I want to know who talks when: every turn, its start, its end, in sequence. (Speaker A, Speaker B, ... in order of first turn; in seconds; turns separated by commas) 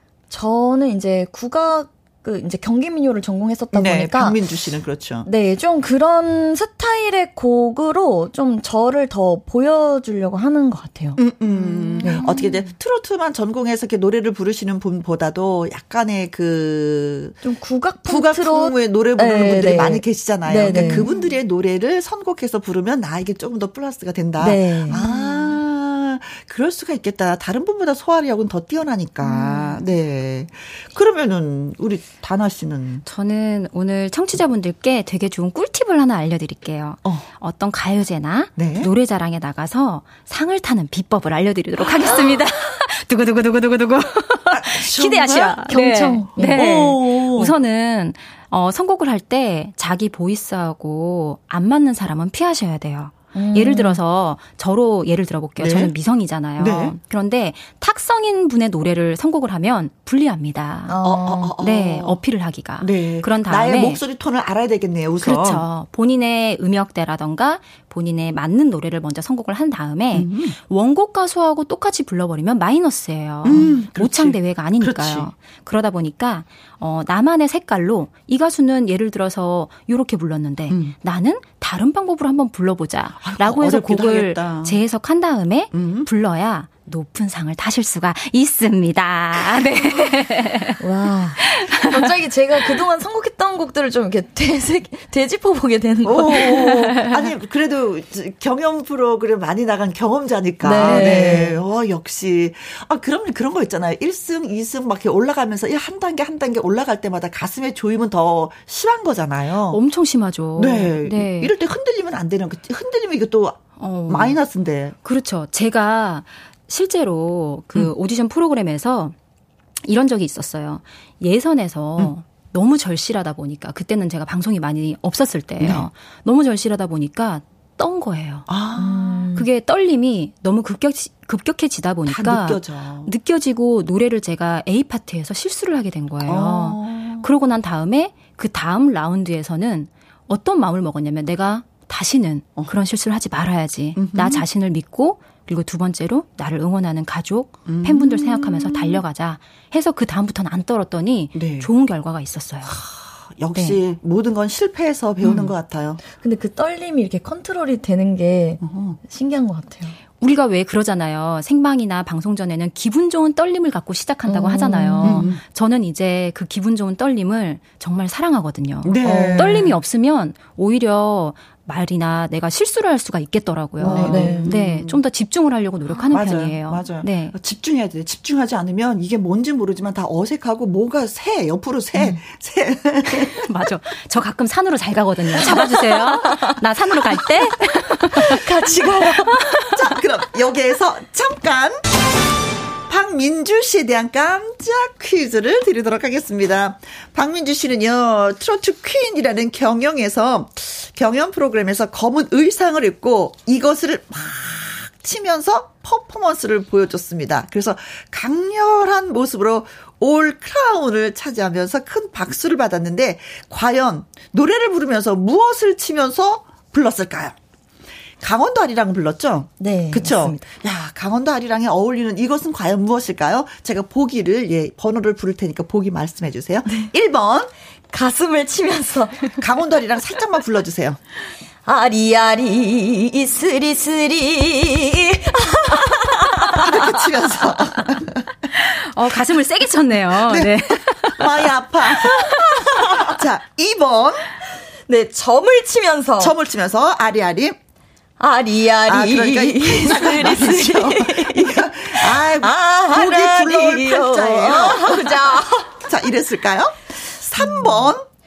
Speaker A: 0.3-4.4, Speaker B: 3.7-5.3, Speaker A: 5.2-11.3, Speaker B: 11.2-17.4, Speaker C: 11.8-12.4, Speaker A: 12.0-12.5, Speaker A: 17.4-21.1, Speaker B: 18.1-33.0, Speaker C: 20.7-21.3, Speaker A: 24.4-25.0, Speaker C: 24.9-25.6, Speaker C: 29.2-29.9, Speaker C: 33.1-61.0, Speaker B: 38.6-38.9, Speaker B: 42.0-42.4, Speaker B: 44.5-45.7, Speaker A: 45.7-46.7, Speaker B: 46.4-47.5, Speaker A: 53.4-54.0, Speaker B: 55.6-55.9, Speaker B: 56.6-57.0, Speaker B: 60.9-62.2, Speaker A: 61.0-61.5, Speaker C: 61.5-64.0, Speaker B: 62.8-65.6, Speaker C: 65.2-90.8, Speaker B: 70.1-70.6, Speaker B: 73.4-75.3, Speaker B: 80.7-81.0, Speaker B: 83.2-84.8, Speaker B: 85.7-86.1, Speaker A: 90.8-96.8, Speaker B: 96.0-109.8, Speaker A: 100.6-101.6, Speaker C: 100.8-101.2, Speaker C: 109.7-111.5, Speaker B: 110.6-115.0, Speaker C: 113.8-114.4, Speaker C: 115.0-119.2, Speaker C: 119.8-152.8, Speaker B: 125.6-125.9, Speaker B: 128.5-129.4, Speaker B: 132.1-133.1, Speaker B: 136.2-137.3, Speaker B: 144.0-144.4, Speaker B: 147.7-149.0, Speaker B: 151.3-151.7, Speaker B: 152.7-156.0, Speaker A: 156.1-160.0, Speaker B: 158.6-159.0, Speaker C: 160.2-177.4, Speaker A: 164.3-165.3, Speaker B: 165.0-165.4, Speaker B: 168.8-169.8, Speaker A: 169.0-169.5, Speaker A: 173.8-174.6, Speaker B: 173.8-175.0, Speaker B: 176.1-183.5, Speaker C: 183.4-188.4, Speaker B: 185.5-185.9, Speaker A: 188.3-189.4, Speaker B: 188.3-191.8, Speaker B: 192.9-217.3, Speaker B: 218.2-227.5, Speaker A: 219.6-220.4, Speaker A: 227.9-229.2, Speaker B: 229.4-231.0, Speaker A: 231.7-236.9, Speaker B: 236.5-238.2, Speaker C: 238.5-241.3, Speaker B: 240.2-244.3, Speaker A: 244.9-246.3, Speaker B: 246.2-247.6, Speaker A: 248.2-255.7, Speaker B: 248.9-255.1, Speaker B: 255.8-258.1, Speaker A: 257.4-257.9